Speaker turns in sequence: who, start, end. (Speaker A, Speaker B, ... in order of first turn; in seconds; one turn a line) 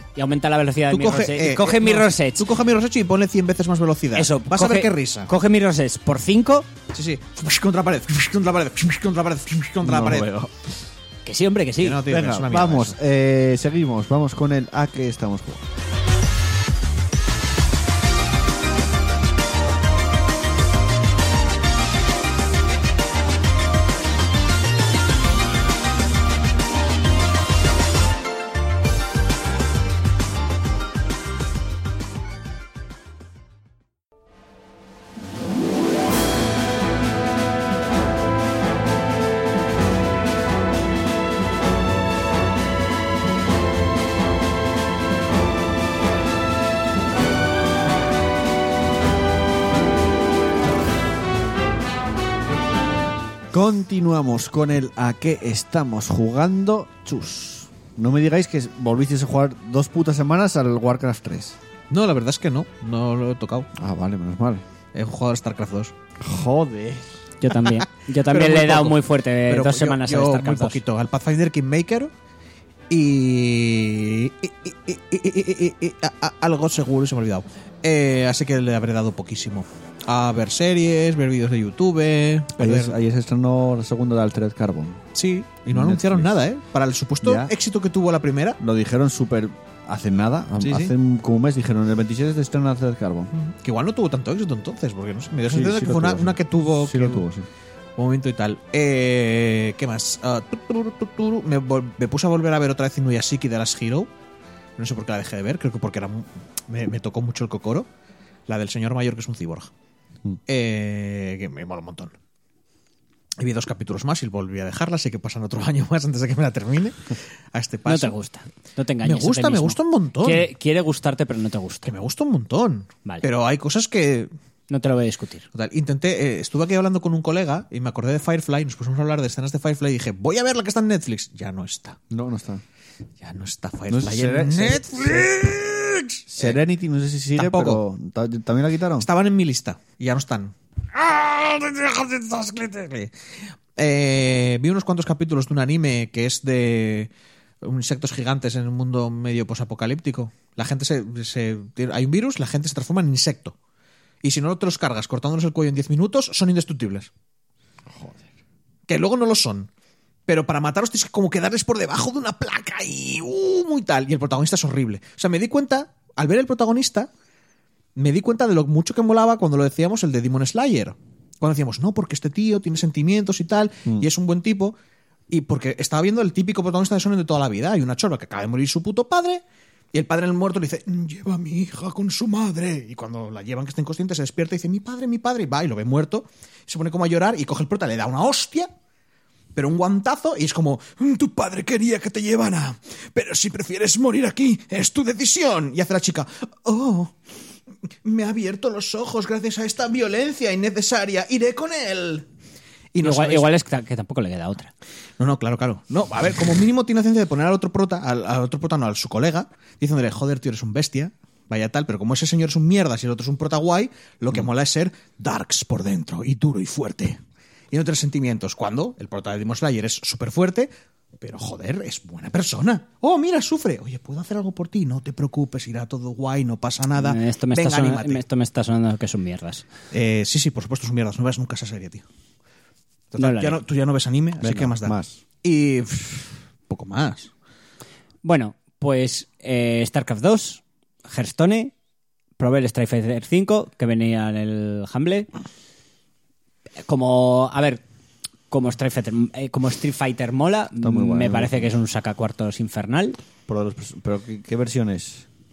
Speaker A: 0.2-2.5
Speaker B: 0.9-5.3
Speaker A: 4.2-6.7
Speaker B: 6.9-10.3
Speaker C: 9.8-10.5
Speaker A: 11.2-12.1
Speaker B: 11.8-13.0
Speaker C: 12.1-15.7
Speaker C: 53.5-61.6
Speaker B: 61.9-63.7
Speaker C: 63.8-64.6
Speaker B: 64.9-65.9
Speaker C: 66.2-67.2
Speaker A: 67.4-70.8
Speaker B: 67.8-72.1
Speaker B: 72.9-83.0
Speaker C: 82.6-85.0
Speaker B: 85.2-88.6
Speaker C: 85.7-86.3
Speaker C: 87.2-87.5
Speaker C: 88.6-93.3
Speaker B: 90.6-90.9
Speaker B: 93.3-97.2
Speaker C: 95.5-97.5
Speaker B: 98.0-104.1
Speaker B: 104.8-107.9
Speaker B: 108.5-109.7
Speaker B: 110.5-112.1
Speaker B: 113.4-118.1
Speaker A: 117.9-121.9
Speaker B: 119.0-120.5
Speaker B: 121.8-124.3
Speaker A: 124.7-125.5
Speaker B: 125.5-132.0
Speaker C: 132.1-132.6
Speaker B: 133.2-136.6
Speaker C: 133.9-135.6
Speaker C: 136.3-139.1
Speaker B: 137.4-137.8
Speaker B: 139.0-143.1
Speaker B: 143.8-147.1
Speaker B: 147.6-153.6
Speaker B: 154.2-157.1
Speaker C: 157.9-158.3
Speaker B: 158.9-159.7
Speaker B: 160.3-167.1
Speaker B: 168.0-174.8
Speaker B: 175.3-179.4
Speaker B: 179.9-188.7
Speaker B: 189.6-197.1
Speaker B: 198.0-202.2
Speaker B: 202.9-203.5
Speaker A: 203.0-204.7
Speaker B: 205.2-217.2
Speaker B: 217.7-228.2
Speaker A: 226.9-229.7
Speaker B: 229.9-232.1
Speaker B: 233.1-237.3
Speaker A: 233.2-233.6
Speaker C: 234.4-235.2
Speaker A: 238.2-241.7
Speaker A: 242.4-245.3
Speaker A: 246.8-247.8
Speaker A: 248.5-253.2
Speaker C: 250.8-251.7
Speaker C: 253.5-255.3